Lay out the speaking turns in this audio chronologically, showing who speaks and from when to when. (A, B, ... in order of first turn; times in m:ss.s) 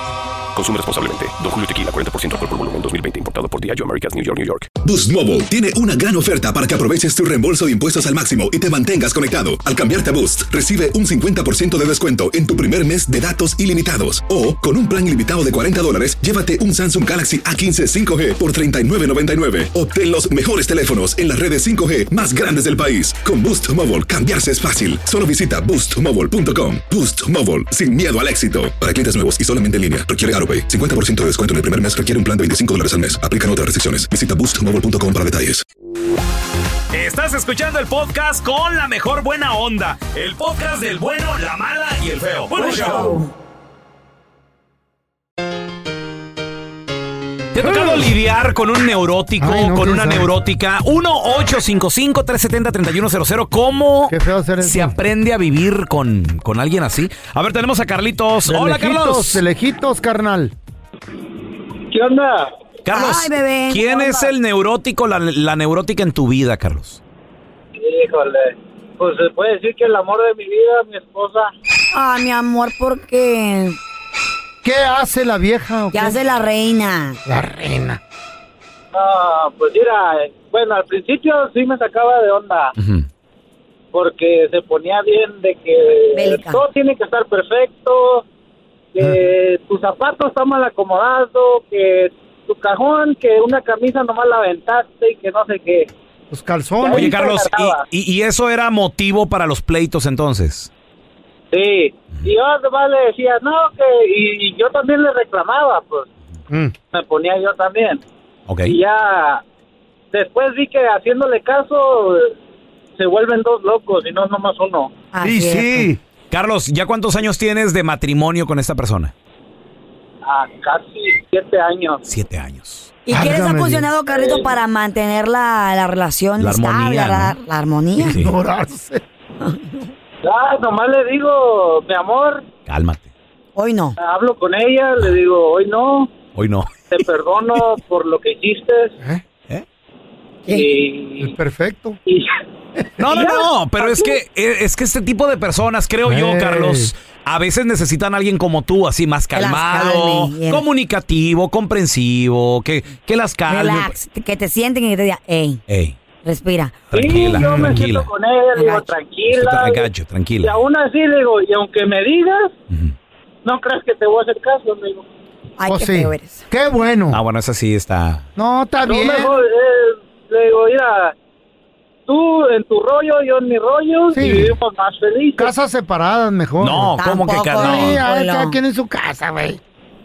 0:00.6-0:04.7 A
0:04.8-0:35.6 B
0:36.9-0:43.2 C
0:42.6-0:43.3 D
0:47.5-0:59.4 C
0:47.6-0:48.1 E
0:49.4-0:50.3 E
0:54.1-0:55.0 E
0:58.5-1:00.5 E
1:01.9-1:02.5 F
1:02.8-1:07.0 C
1:02.9-1:04.3 D
1:07.7-1:11.5 F
1:11.9-1:13.8 D
1:14.6-1:16.2 E
1:15.9-1:17.2 D
1:17.3-1:18.0 E
1:18.9-1:22.8 F
1:22.8-1:23.1 C
1:23.9-1:28.2 F
1:26.1-1:26.6 D
1:29.0-1:35.9 F
1:36.3-1:37.1 E
1:36.8-1:37.8 F
1:36.9-1:40.7 C
1:41.5-1:46.1 F
1:46.9-1:48.0 F
1:48.5-1:48.8 C
1:48.6-1:49.4 F
1:50.1-1:52.4 F
1:53.0-1:54.9 F
1:55.1-1:55.9 D
1:55.2-1:56.0 E
1:56.3-1:59.1 C
2:00.2-2:02.0 F
2:02.0-2:02.9 C
2:03.1-2:08.2 D
2:03.1-2:03.9 E
2:04.1-2:04.5 F
2:06.4-2:07.4 C
2:08.0-2:08.3 C
2:08.0-2:09.0 E
2:09.4-2:09.9 D
2:10.2-2:12.5 F
2:12.7-2:13.1 C
2:13.6-2:14.0 D
2:14.0-2:16.1 F
2:16.4-2:16.7 C
2:16.9-2:18.9 F
2:20.5-2:21.4 F
2:21.2-2:22.0 E
2:22.1-2:22.3 F
2:23.0-2:34.0 C
2:23.1-2:24.1 F
2:26.1-2:26.9 E
2:29.3-2:30.6 D
2:33.5-2:35.6 D
2:35.7-2:36.0 C
2:36.2-2:36.8 D
2:36.9-2:38.1 C
2:36.9-2:39.9 F
2:37.4-2:37.9 E
2:38.6-2:38.9 D
2:39.3-2:40.6 C
2:40.4-2:42.5 F
2:42.7-2:43.0 C
2:43.4-2:45.1 F
2:45.6-2:46.4 D
2:45.7-2:47.2 E
2:47.1-2:48.3 C
2:48.4-2:49.4 E
2:48.8-2:51.2 F
2:52.1-2:55.5 F
2:54.1-2:54.6 E
2:55.4-2:57.0 E
2:56.6-2:58.0 C
2:57.0-2:58.6 D
2:57.6-2:59.6 E